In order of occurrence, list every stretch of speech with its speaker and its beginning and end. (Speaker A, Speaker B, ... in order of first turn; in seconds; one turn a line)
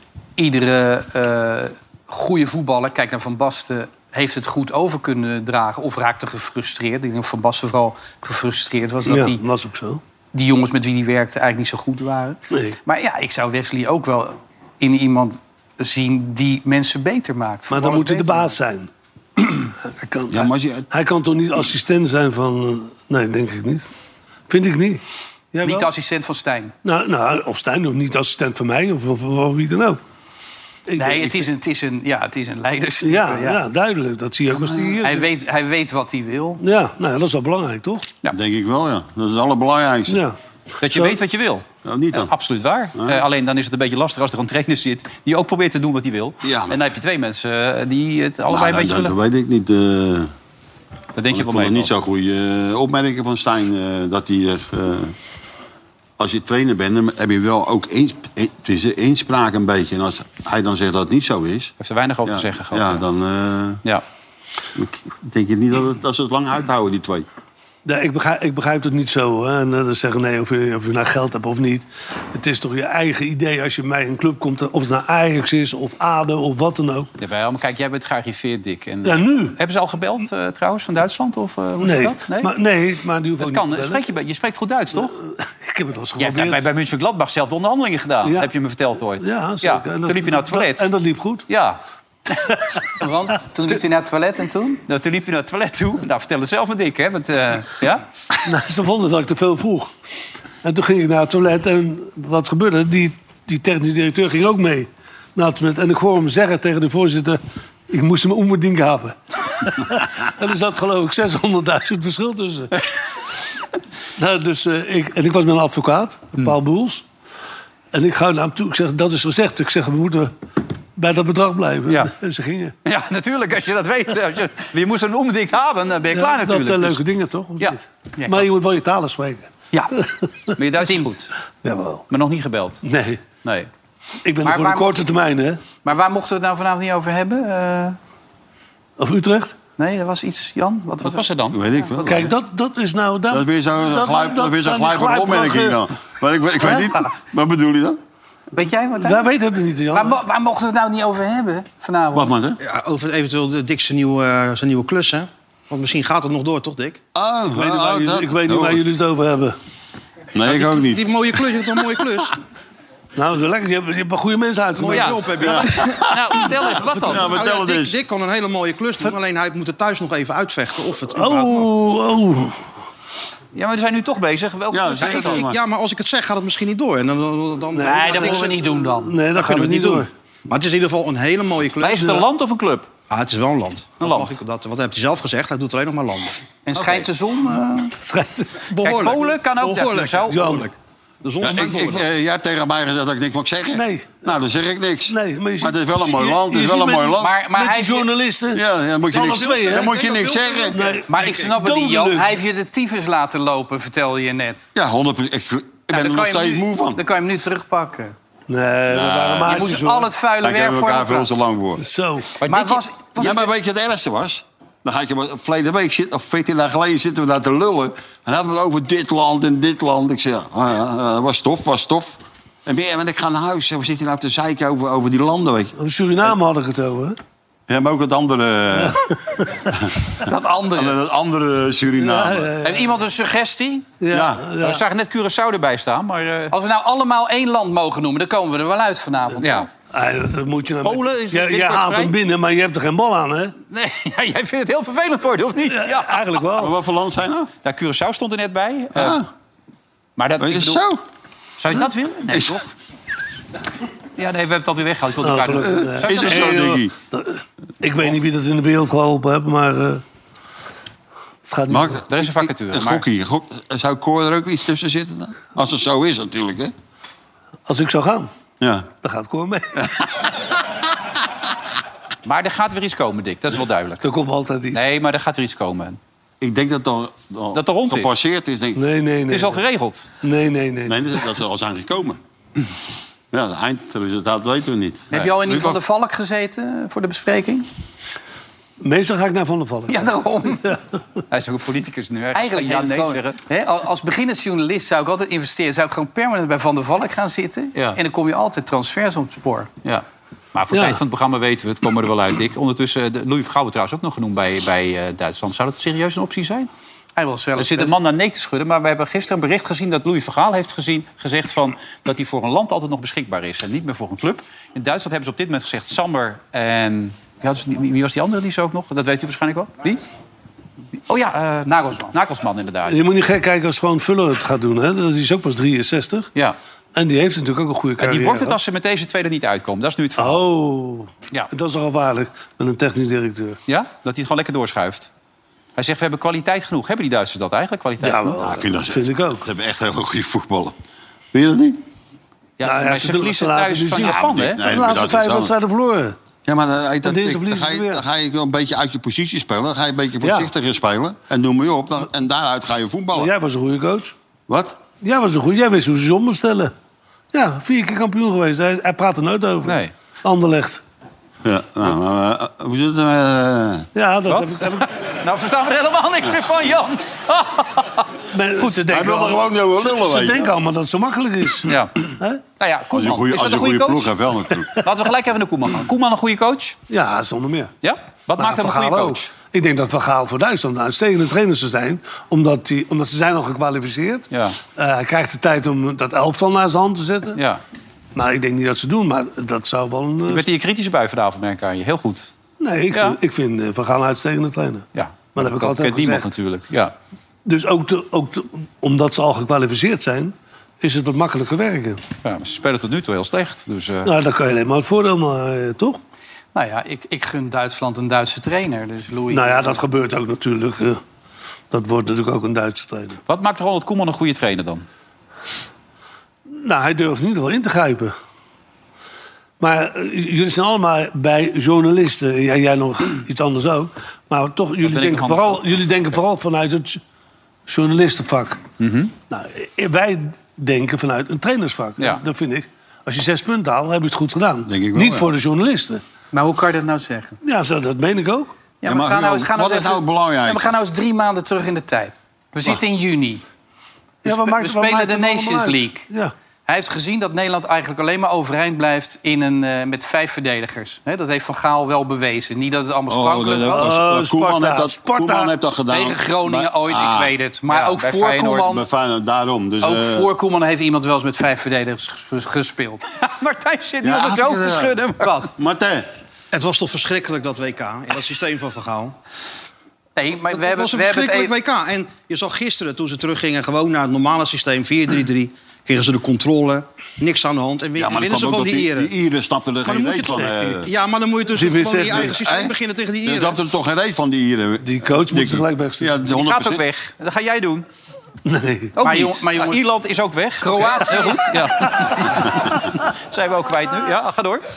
Speaker A: 0.4-9.4
Speaker B: 9.1-10.0
Speaker A: 10.3-18.5
Speaker B: 12.5-12.8
Speaker B: 17.7-23.9
Speaker C: 20.3-20.9
Speaker B: 24.5-25.0
Speaker B: 25.5-25.9
Speaker A: 25.6-26.7
Speaker B: 26.8-30.0
Speaker B: 30.9-31.4
Speaker A: 30.9-33.6
Speaker B: 33.0-35.2
Speaker A: 35.0-36.6
Speaker B: 36.6-38.1
Speaker C: 38.3-40.2
Speaker B: 40.1-41.1
Speaker D: 40.8-49.1
Speaker C: 41.8-42.3
Speaker C: 46.4-46.8
Speaker C: 48.5-50.3
Speaker D: 51.1-51.9
Speaker C: 51.3-55.1
Speaker C: 56.2-61.7
Speaker D: 61.8-63.0
Speaker C: 62.2-63.8
Speaker C: 64.8-67.2
Speaker B: 67.8-77.1
Speaker D: 77.2-82.5
Speaker B: 79.0-79.6
Speaker B: 81.8-84.0
Speaker D: 83.4-85.2
Speaker B: 85.1-86.6
Speaker D: 86.2-90.9
Speaker B: 88.2-88.5
Speaker B: 89.2-91.5
Speaker D: 91.5-91.8
Speaker A: 93.0-94.8
Speaker D: 94.9-98.0
Speaker B: 98.4-99.9
Speaker B: 100.6-112.7
Speaker B: 114.2-117.0
Speaker B: 117.9-120.3
Speaker B: 121.0-122.7
Speaker D: 122.8-127.0
Speaker B: 126.1-130.5
Speaker A: 128.2-128.4
Speaker D: 130.6-131.3
Speaker A: 130.8-131.1
Speaker B: 131.6-132.0
Speaker D: 132.1-132.8
Speaker B: 132.8-133.2
Speaker D: 133.4-133.7
Speaker B: 134.2-135.6
Speaker A: 134.4-134.9
Speaker A: 135.8-138.0
Speaker B: 139.0-139.5
Speaker A: 139.8-141.2
Speaker D: 141.0-141.6
Speaker C: 141.5-142.3
Speaker B: 142.0-145.8
Speaker C: 143.3-148.0
Speaker A: 148.5-149.3
Speaker B: 149.0-150.2
Speaker A: 149.9-152.3
Speaker C: 152.1-152.6
Speaker E: 152.6-157.0
Speaker C: 157.1-158.8
Speaker B: 157.5-159.6
Speaker C: 160.3-161.1
Speaker E: 160.4-162.3
Speaker B: 163.2-165.2
Speaker E: 164.7-166.1
Speaker D: 164.9-167.4
Speaker C: 165.4-166.2
Speaker C: 167.1-167.9
Speaker E: 167.1-171.7
Speaker B: 171.1-172.6
Speaker D: 173.5-175.5
Speaker C: 174.7-175.6
Speaker E: 175.0-178.6
Speaker B: 177.7-180.1
Speaker A: 177.9-179.2
Speaker E: 179.3-182.2
Speaker D: 181.8-182.9
Speaker E: 183.1-186.5
Speaker D: 184.0-184.4
Speaker A: 186.7-187.9
Speaker B: 188.0-188.6
Speaker E: 188.7-190.7
Speaker D: 188.8-190.5
Speaker B: 190.3-190.7
Speaker E: 191.2-192.0
Speaker C: 191.4-197.3
Speaker B: 193.7-194.3
Speaker B: 195.1-199.9
Speaker A: 197.2-198.1
Speaker C: 198.5-200.8
Speaker E: 199.2-200.9
Speaker B: 200.7-202.3
Speaker A: 201.1-204.7
Speaker C: 204.7-207.0
Speaker A: 205.9-208.1
Speaker B: 208.5-210.1
Speaker C: 208.9-209.7
Speaker A: 209.4-211.3
Speaker C: 210.4-211.8
Speaker B: 211.8-212.3
Speaker D: 212.4-212.8
Speaker A: 212.4-213.5
Speaker C: 213.2-225.7
Speaker B: 225.8-227.2
Speaker C: 227.7-229.0
Speaker A: 230.2-231.0
Speaker C: 230.7-232.5
Speaker B: 232.0-232.8
Speaker A: 232.6-233.9
Speaker B: 234.0-234.8
Speaker C: 234.1-234.4
Speaker D: 234.6-236.5
Speaker A: 236.5-239.6
Speaker D: 239.4-239.7
Speaker B: 239.9-243.5
Speaker D: 240.8-242.1
Speaker D: 243.7-246.4
Speaker B: 245.7-246.7
Speaker C: 246.6-247.5
Speaker D: 247.6-249.2
Speaker C: 248.9-249.3
Speaker D: 250.2-250.8
Speaker C: 250.4-251.0
Speaker D: 251.6-252.7
Speaker C: 252.3-252.6
Speaker D: 254.2-256.6
Speaker B: 255.2-260.0
Speaker C: 255.7-256.9
Speaker B: 261.4-262.0
Speaker C: 261.7-266.7
Speaker D: 262.1-263.0
Speaker B: 267.7-268.3
Speaker C: 268.6-268.9
Speaker B: 269.0-269.8
Speaker D: 272.2-274.0
Speaker B: 274.0-274.8
Speaker D: 274.7-276.0
Speaker C: 276.4-278.8
Speaker D: 277.5-278.1
Speaker B: 278.8-279.6
Speaker D: 279.3-280.1
Speaker B: 280.2-281.0
Speaker C: 280.9-282.2
Speaker C: 283.3-285.8
Speaker A: 285.1-287.7
Speaker B: 288.8-290.8
Speaker A: 289.9-290.7
Speaker D: 291.3-293.4
Speaker A: 292.3-299.7
Speaker D: 299.8-306.7
Speaker B: 300.7-301.0
Speaker A: 307.1-307.9
Speaker D: 307.6-320.0
Speaker D: 321.1-323.0
Speaker A: 321.6-322.1
Speaker B: 322.9-326.3
Speaker B: 326.9-328.6
Speaker D: 328.0-330.4
Speaker B: 330.2-333.6
Speaker D: 333.7-335.1
Speaker D: 335.8-338.4
Speaker B: 338.0-339.4
Speaker C: 338.4-340.8
Speaker C: 341.3-341.8
Speaker D: 342.6-344.6
Speaker B: 342.6-346.1
Speaker C: 344.0-345.5
Speaker C: 346.4-353.3
Speaker B: 347.0-348.0
Speaker B: 350.2-350.5
Speaker B: 353.1-354.1
Speaker C: 354.5-354.8
Speaker B: 355.0-356.7
Speaker B: 357.3-360.8
Speaker D: 359.6-359.9
Speaker C: 361.4-363.9
Speaker B: 363.9-364.9
Speaker D: 364.3-368.8
Speaker B: 368.3-372.4
Speaker C: 368.9-370.5
Speaker D: 371.6-371.9
Speaker D: 372.6-374.1
Speaker C: 372.9-374.7
Speaker D: 374.8-376.8
Speaker B: 376.9-377.7
Speaker D: 377.8-379.3
Speaker B: 378.4-387.4
Speaker D: 384.3-384.6
Speaker D: 387.4-387.6
Speaker B: 388.1-390.4
Speaker D: 390.3-392.3
Speaker B: 392.6-396.3
Speaker D: 394.9-396.9
Speaker B: 397.4-402.0
Speaker D: 402.2-404.1
Speaker B: 404.0-406.0
Speaker A: 406.5-409.8
Speaker B: 409.3-411.0
Speaker B: 411.7-413.2
Speaker D: 413.3-414.9
Speaker B: 416.5-418.1
Speaker B: 419.6-427.0
Speaker D: 424.8-425.8
Speaker B: 427.7-428.6
Speaker D: 428.8-429.1
Speaker B: 429.3-436.0
Speaker C: 434.7-435.3
Speaker A: 436.3-437.4
Speaker B: 437.4-438.5
Speaker A: 438.8-443.4
Speaker C: 438.8-440.7
Speaker B: 444.2-446.3
Speaker A: 444.2-446.1
Speaker A: 446.6-453.9
Speaker C: 453.1-457.3
Speaker B: 453.7-455.5
Speaker A: 455.9-458.8
Speaker D: 457.7-458.7
Speaker C: 458.7-460.3
Speaker A: 459.8-463.0
Speaker D: 463.1-465.3
Speaker C: 464.0-465.0
Speaker A: 465.2-465.5
Speaker C: 465.6-466.1
Speaker E: 466.5-469.1
Speaker A: 470.2-471.5
Speaker E: 470.5-479.1
Speaker C: 477.9-480.9
Speaker E: 479.8-483.6
Speaker B: 481.5-482.3
Speaker C: 482.1-486.8
Speaker B: 484.8-486.1
Speaker D: 486.3-487.9
Speaker B: 488.4-488.9
Speaker D: 489.0-494.6
Speaker A: 489.0-489.9
Speaker A: 490.6-491.6